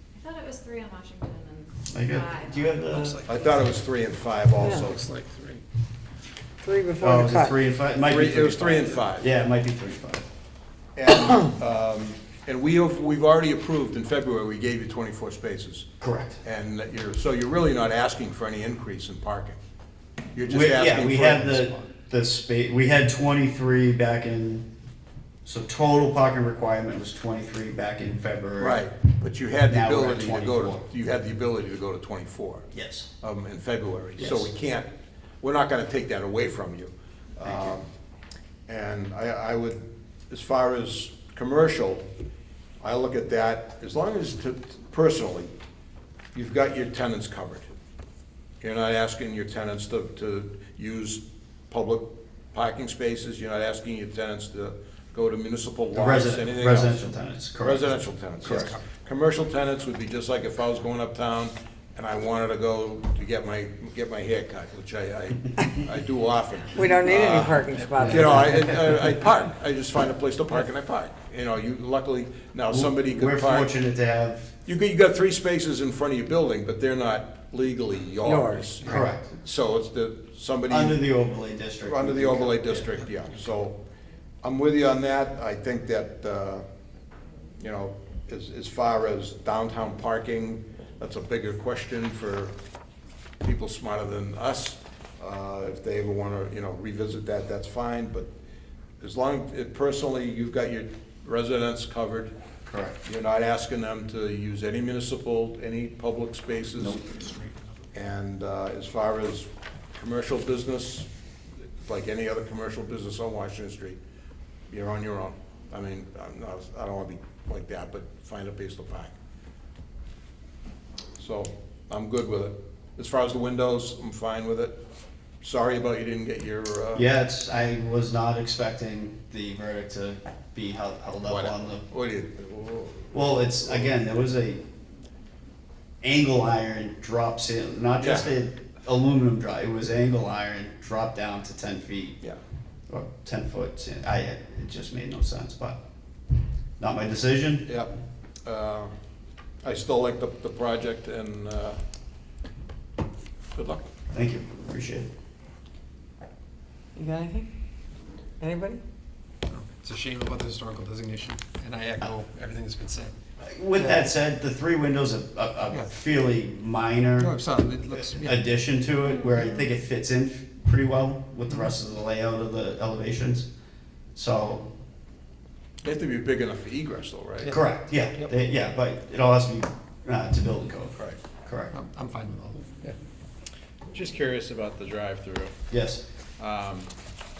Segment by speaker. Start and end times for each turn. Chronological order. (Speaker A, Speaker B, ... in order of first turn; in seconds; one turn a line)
Speaker A: 0.3-1.6
Speaker B: 1.9-3.2
Speaker A: 2.2-3.0
Speaker C: 2.9-3.7
Speaker D: 3.3-5.0
Speaker E: 4.6-4.9
Speaker C: 5.0-5.6
Speaker E: 6.6-7.6
Speaker B: 7.0-10.2
Speaker D: 8.0-9.3
Speaker D: 11.0-15.9
Speaker B: 16.0-16.4
Speaker D: 16.4-19.6
Speaker D: 20.4-21.7
Speaker B: 20.5-24.7
Speaker B: 25.4-28.9
Speaker D: 28.6-32.6
Speaker B: 29.7-30.8
Speaker B: 32.7-33.1
Speaker D: 33.2-34.9
Speaker B: 34.2-34.5
Speaker D: 35.4-37.9
Speaker B: 37.4-37.8
Speaker D: 38.7-42.0
Speaker D: 42.8-45.5
Speaker D: 46.3-47.8
Speaker D: 48.6-57.0
Speaker B: 55.9-58.8
Speaker D: 57.6-73.7
Speaker E: 66.7-68.5
Speaker C: 68.0-68.2
Speaker B: 68.0-68.5
Speaker B: 72.7-74.5
Speaker D: 74.7-81.0
Speaker E: 78.2-78.8
Speaker B: 78.8-79.3
Speaker B: 80.7-82.9
Speaker D: 81.8-83.8
Speaker D: 84.4-86.6
Speaker D: 87.6-92.5
Speaker D: 93.4-98.3
Speaker D: 99.0-102.3
Speaker B: 102.7-103.0
Speaker D: 103.0-107.0
Speaker B: 106.8-107.0
Speaker D: 107.9-111.1
Speaker D: 111.8-114.0
Speaker D: 114.7-119.1
Speaker D: 121.2-124.8
Speaker D: 125.4-127.1
Speaker B: 127.0-131.8
Speaker D: 131.3-134.0
Speaker B: 133.1-134.6
Speaker B: 136.0-142.2
Speaker D: 138.0-138.3
Speaker B: 142.9-145.8
Speaker B: 146.8-147.8
Speaker D: 147.7-147.9
Speaker D: 148.4-148.9
Speaker D: 149.6-151.8
Speaker D: 153.6-153.9
Speaker B: 154.1-155.1
Speaker E: 157.0-157.5
Speaker E: 158.4-158.8
Speaker C: 159.5-163.2
Speaker B: 163.4-167.3
Speaker C: 167.2-168.4
Speaker B: 168.1-173.5
Speaker B: 174.2-174.7
Speaker D: 175.8-177.5
Speaker C: 177.4-178.3
Speaker B: 177.5-181.7
Speaker C: 181.7-182.7
Speaker F: 183.9-185.6
Speaker B: 185.7-186.0
Speaker F: 186.4-186.9